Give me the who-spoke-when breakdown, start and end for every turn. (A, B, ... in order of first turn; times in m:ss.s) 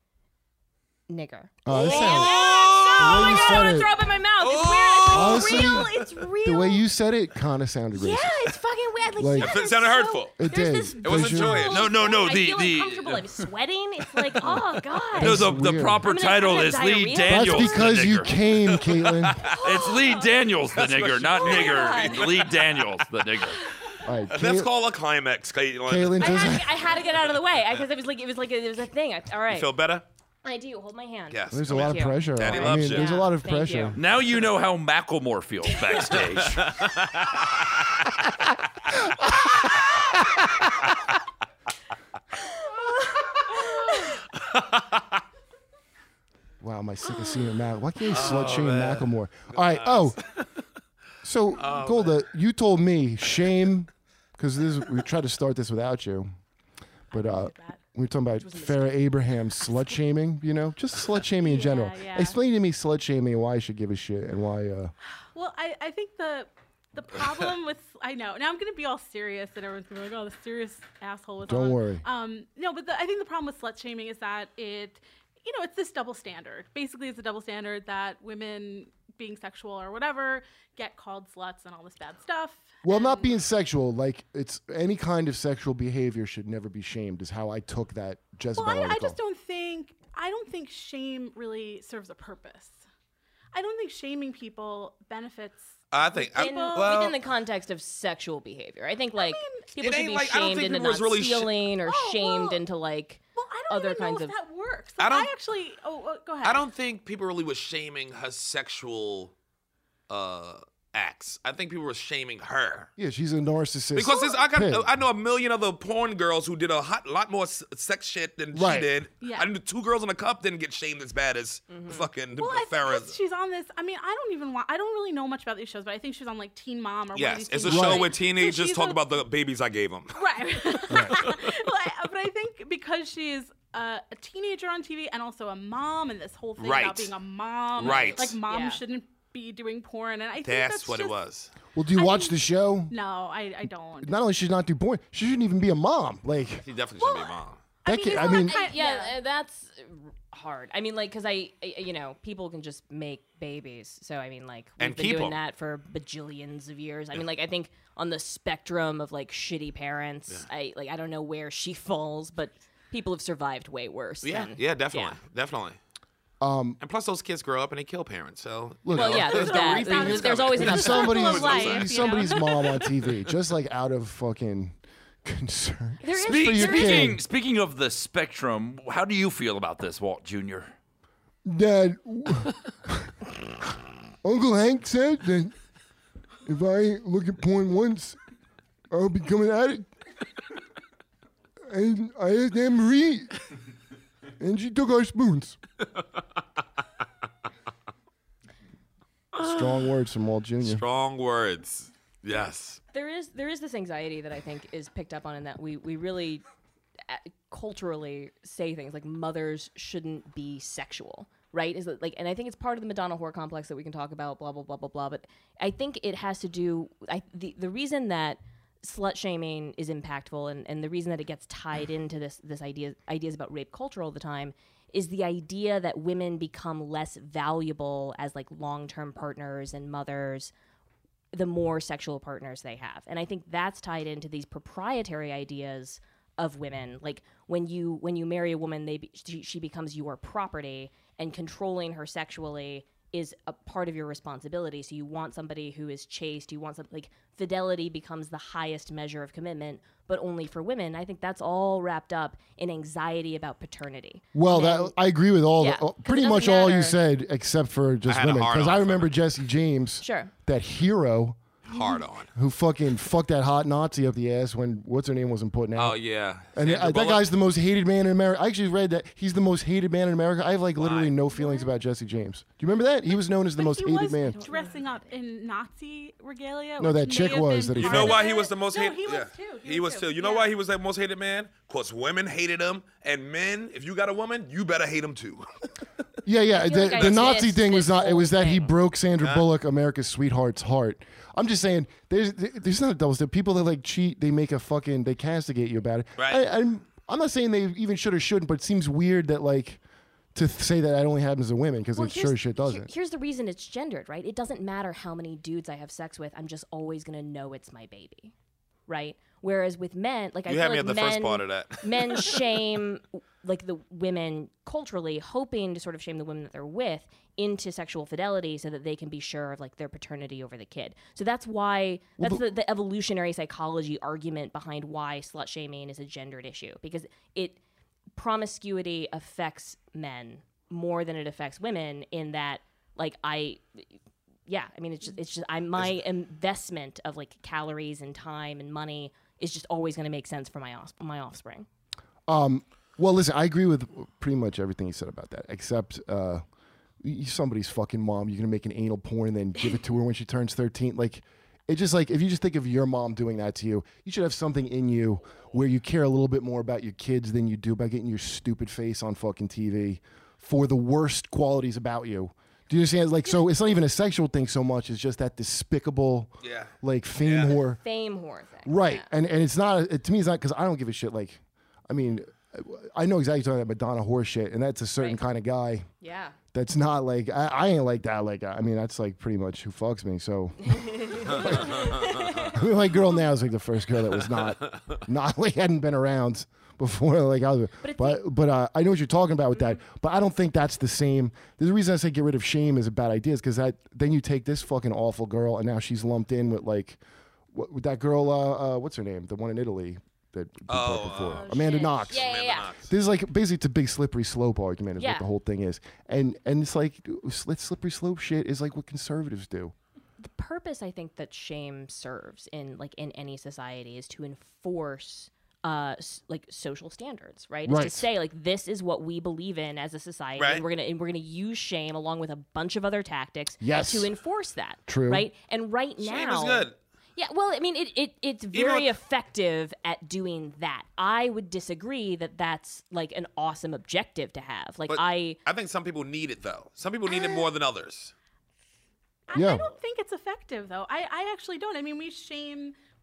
0:01.1-0:06.8 A
0:01.6-0:02.4 B
0:01.7-0:03.7 C
0:01.8-0:03.9 D
0:02.9-0:03.9 B
0:04.4-0:06.0 C
0:05.1-0:06.7 D
0:05.1-0:08.5 B
0:07.9-0:15.5 A
0:09.2-0:09.6 B
0:09.4-0:10.2 D
0:09.4-0:10.4 C
0:10.4-0:11.7 B
0:11.0-0:11.9 C
0:11.6-0:13.3 E
0:15.1-0:18.8 E
0:15.2-0:16.1 B
0:16.0-0:17.9 A
0:17.2-0:19.4 B
0:18.7-0:19.6 C
0:19.4-0:23.6 E
0:19.6-0:20.2 A
0:19.8-0:20.2 D
0:20.7-0:23.0 C
0:21.4-0:22.5 A
0:21.7-0:22.0 D
0:24.0-0:24.7 B
0:24.3-0:26.6 C
0:25.8-0:26.8 B
0:26.2-0:29.7 A
0:29.5-0:30.0 C
0:30.4-0:34.0 A
0:31.3-0:33.2 C
0:31.5-0:34.0 B
0:34.0-0:36.8 E
0:36.2-0:37.4 C
0:44.4-0:45.0 C
0:46.6-0:50.2 B
0:48.1-0:50.4 C
0:51.2-0:56.3 B
0:51.6-0:52.2 C
0:57.1-0:57.8 D
0:57.1-1:04.9 B
0:58.4-0:58.9 A
1:01.4-1:02.4 D
1:05.3-1:23.4 D
1:11.4-1:12.0 B
1:22.8-1:29.2 B
1:28.6-1:32.8 D
1:33.5-1:37.1 D
1:35.9-1:37.2 C
1:36.3-1:44.3 A
1:39.2-1:39.7 D
1:39.8-1:41.5 C
1:41.8-1:42.6 D
1:43.4-1:46.6 D
1:45.0-1:45.3 C
1:46.4-1:49.3 C
1:50.1-1:52.9 C
1:53.0-1:54.9 B
1:53.9-2:03.2 C
1:58.5-1:58.9 B
1:59.2-1:59.5 D
2:01.7-2:02.1 A
2:02.4-2:09.0 D
2:07.1-2:11.4 C
2:07.6-2:08.1 B
2:10.1-2:21.2 D
2:10.9-2:11.2 B
2:16.6-2:17.1 C
2:17.8-2:18.4 C
2:17.8-2:18.8 A
2:20.4-2:21.5 C
2:21.7-2:22.9 B
2:21.9-2:24.2 D
2:24.0-2:26.6 B
2:26.6-2:27.6 C
2:27.0-2:29.2 D
2:27.8-2:28.6 B
2:28.0-2:45.2 A
2:34.8-2:35.4 C
2:44.2-2:45.8 C
2:46.4-2:46.8 B
2:46.8-2:52.3 C
2:48.8-2:57.2 B
2:48.9-2:51.8 A
2:49.3-2:52.9 D
2:56.0-2:57.2 A
2:56.2-3:00.7 E
3:01.4-3:03.3 B
3:04.2-3:05.5 B
3:06.4-3:08.2 B
3:08.9-3:09.9 B
3:11.7-3:13.4 B
3:14.4-3:15.6 B
3:19.4-3:19.7 C
3:19.4-3:20.8 B
3:20.6-3:22.8 C
3:22.9-3:26.4 A
3:27.1-3:50.5 A
3:51.3-4:14.9 A
4:14.3-4:21.4 B
4:15.6-4:17.0 A
4:18.0-4:19.1 C
4:20.0-4:20.3 A
4:21.6-4:22.3 C
4:22.3-4:26.0 B
4:25.8-4:27.2 C
4:26.5-4:34.4 B
4:30.8-4:31.2 C
4:33.6-4:40.6 D
4:34.3-4:34.8 A
4:36.8-4:38.2 B
4:37.8-4:45.5 C
4:46.2-4:59.8 B
4:46.5-4:48.7 A
4:47.0-4:47.3 C
4:49.2-4:49.5 C
4:56.2-4:56.4 C
5:00.3-5:02.9 B
5:01.9-5:08.3 A
5:08.9-5:27.6 A
5:10.5-5:12.4 C
5:28.2-5:33.9 A
5:34.5-5:41.7 A
5:42.3-5:46.4 B
5:47.0-6:07.8 B
6:06.4-6:07.6 C
6:07.8-6:09.1 A
6:08.6-6:15.9 B
6:16.0-6:16.4 A
6:16.5-6:37.0 B
6:20.7-6:22.6 A
6:27.8-6:28.2 A
6:37.5-6:49.7 B
6:40.7-6:42.9 C
6:41.4-6:42.7 A
6:41.6-6:41.9 D
6:45.0-6:45.3 A
6:50.2-7:15.4 A
6:57.6-6:58.1 B
7:00.4-7:00.6 C
7:03.6-7:04.1 B
7:04.9-7:05.3 B
7:06.0-7:06.8 C
7:08.5-7:08.9 C
7:14.9-7:18.1 C
7:17.1-7:17.4 D
7:19.3-7:22.8 D
7:19.3-7:19.7 B